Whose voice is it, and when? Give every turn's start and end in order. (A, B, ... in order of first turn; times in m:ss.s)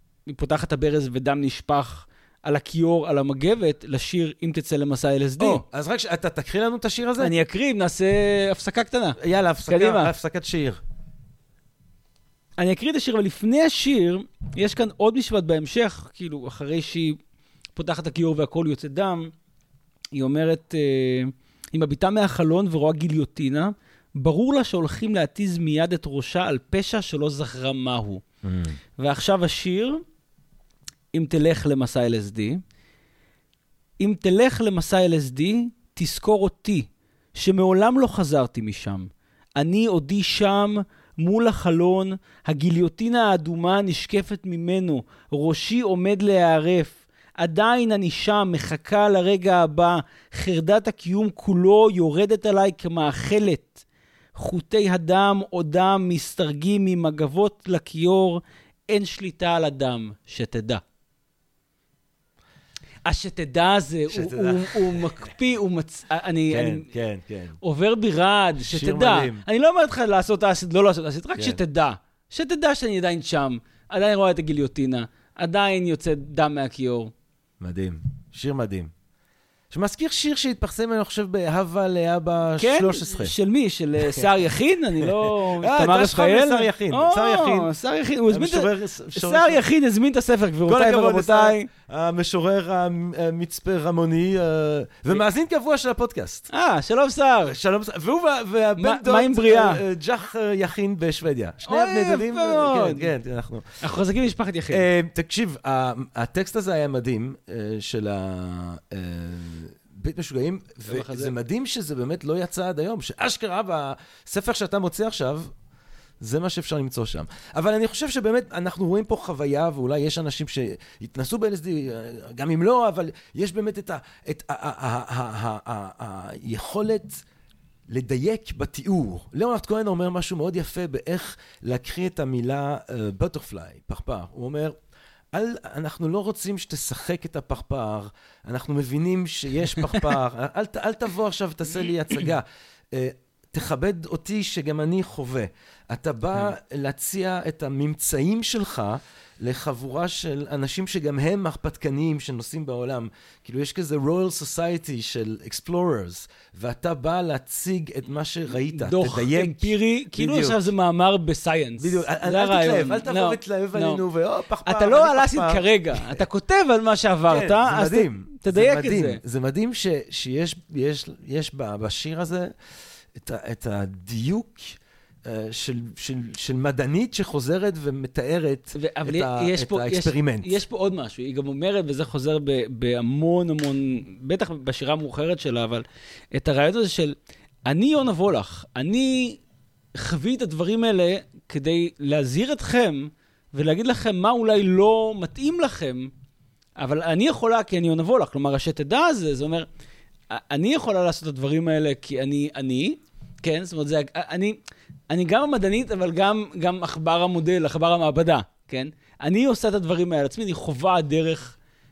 0:00.3-0:05.6 A
0:05.4-0:07.4 B
0:07.2-0:10.1 A
0:09.2-0:10.8 B
0:12.6-0:17.2 A
0:17.7-0:19.3 A
0:20.1-0:28.2 A
0:28.4-0:28.8 B
0:29.0-0:30.0 A
0:31.1-0:32.6 A
0:34.0-0:53.8 A
0:54.3-1:00.8 A
1:03.0-1:06.9 A
1:04.1-1:05.1 B
1:06.5-1:07.6 B
1:07.6-1:17.1 A
1:08.6-1:09.4 B
1:17.6-1:18.9 B
1:19.7-1:23.3 B
1:22.6-1:31.7 A
1:24.0-1:24.3 B
1:25.0-1:27.7 B
1:28.3-1:29.6 B
1:30.7-1:36.5 B
1:36.5-1:37.6 A
1:37.5-1:43.8 B
1:38.8-1:39.8 A
1:41.7-1:43.1 A
1:43.8-1:44.8 A
1:44.7-1:55.5 B
1:50.9-1:51.3 A
1:56.2-2:07.2 B
2:07.9-2:14.7 B
2:15.3-2:40.7 B
2:38.6-2:44.0 A
2:41.8-2:46.2 B
2:44.6-2:49.2 A
2:47.3-2:52.5 B
2:53.2-3:00.6 B
2:58.7-3:07.2 A
3:07.7-3:09.4 A
3:10.0-3:16.1 A
3:16.8-3:19.7 A
3:20.3-3:31.6 A